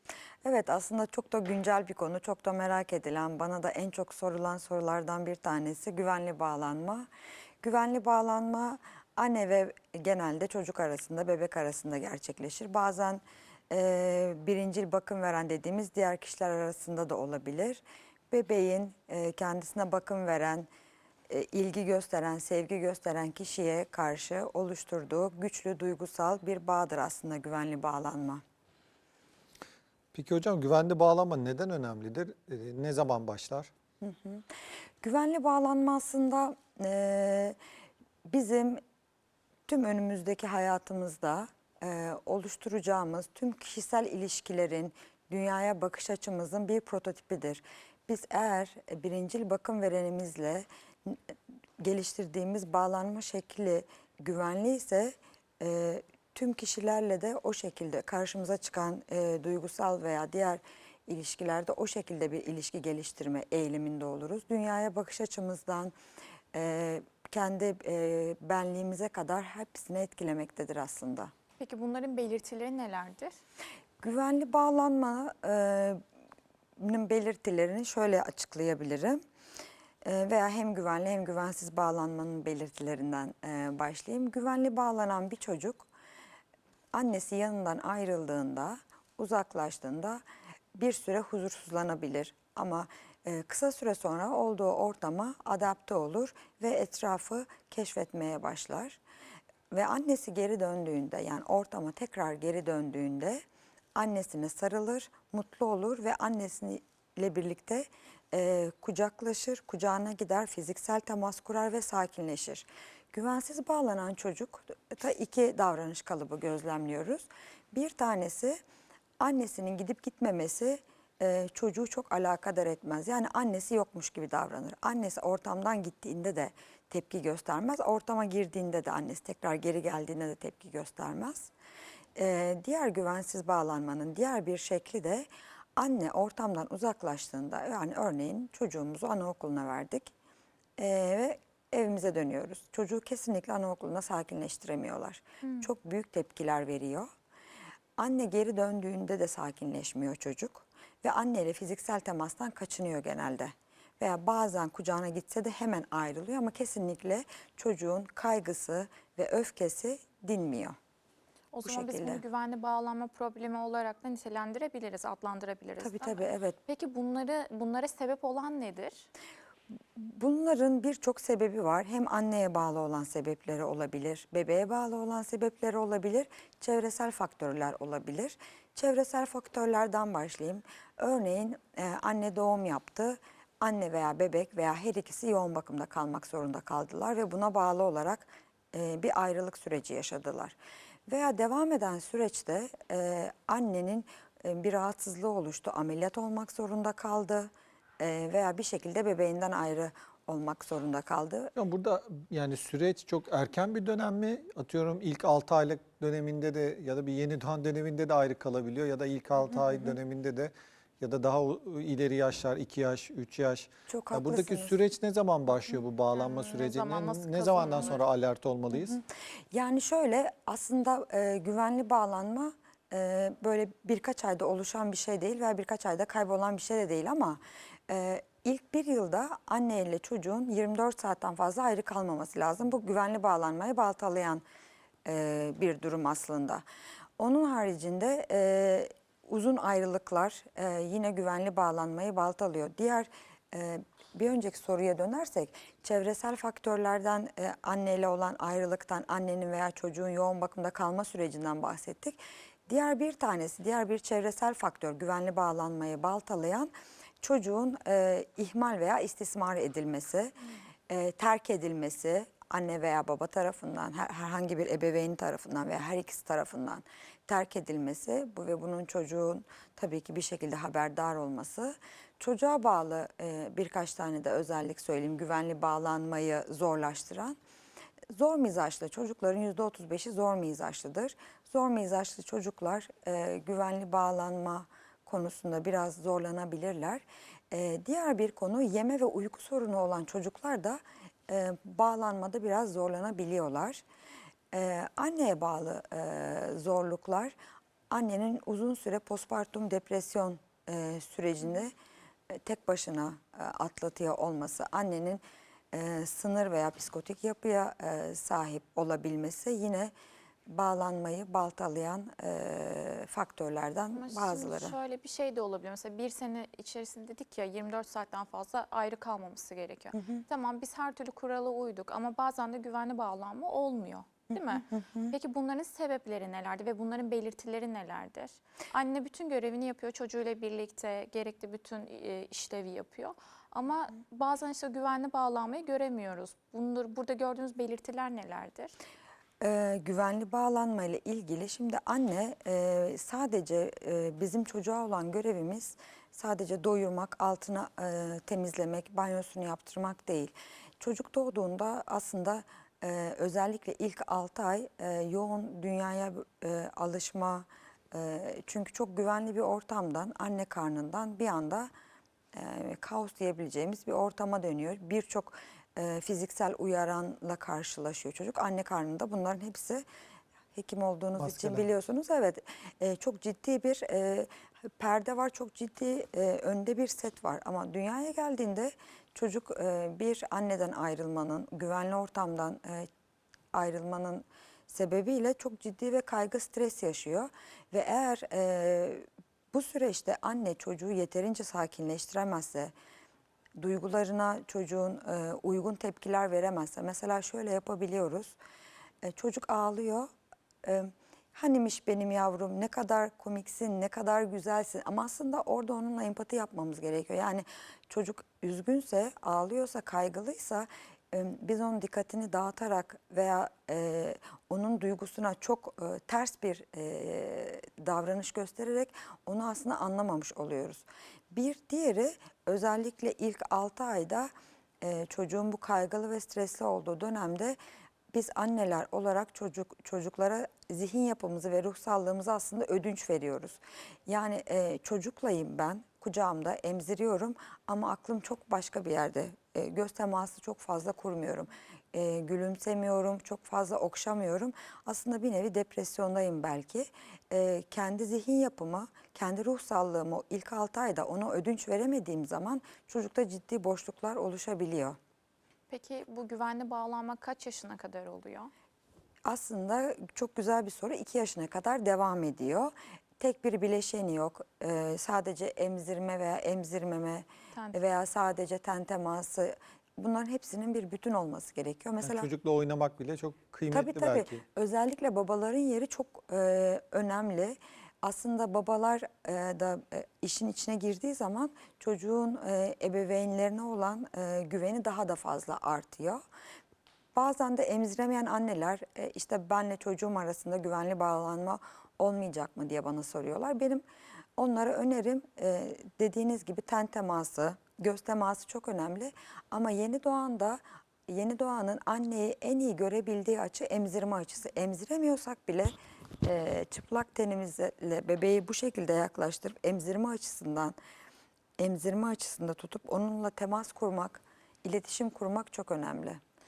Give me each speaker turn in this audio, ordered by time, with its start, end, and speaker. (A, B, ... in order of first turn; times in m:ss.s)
0:00.4-0:07.1 A
0:07.6-0:20.7 A
0:21.3-0:28.4 A
0:30.1-0:33.7 B
0:34.0-0:34.4 A
0:35.0-0:37.6 A
0:38.2-0:38.8 A
0:39.7-1:05.9 A
1:06.5-1:11.3 A
1:11.6-1:13.3 C
1:14.0-1:16.0 A
1:16.8-1:19.2 A
1:20.0-1:25.9 A
1:26.9-1:30.2 A
1:30.7-1:39.0 A
1:39.7-1:43.4 A
1:43.9-1:58.6 A
1:59.2-2:11.5 A
2:12.2-2:20.1 A
2:20.8-2:27.1 A
2:28.0-2:40.8 A
2:41.5-2:49.1 C
2:41.6-2:42.2 A
2:45.8-2:46.6 A
2:50.0-3:10.6 A
3:11.1-3:21.5 A
3:21.6-3:39.0 B
3:33.9-3:34.8 A
3:36.1-3:38.0 C
3:38.7-3:54.4 A
3:55.0-3:56.6 A
3:57.2-4:20.3 A
4:20.9-4:37.4 A
4:38.1-4:53.8 A
4:54.5-4:57.3 A
4:57.9-5:01.7 A
5:02.3-5:09.9 A
5:10.5-5:14.8 A
5:13.9-5:38.7 C
5:19.9-5:20.2 A
5:24.3-5:25.1 A
5:39.4-6:01.7 A
6:02.3-6:09.8 A
6:10.5-6:22.9 A
6:11.2-6:11.7 B
6:23.5-6:32.7 A
6:33.6-6:38.4 A
6:39.0-6:40.1 A
6:40.6-7:04.3 A
7:04.8-7:07.6 A
7:08.1-7:35.0 A
7:35.7-7:38.5 C
7:39.2-7:52.3 A
7:52.0-7:54.4 B
7:53.7-8:06.2 A
8:07.1-8:13.8 A
8:14.4-8:30.8 A
8:31.6-8:36.2 A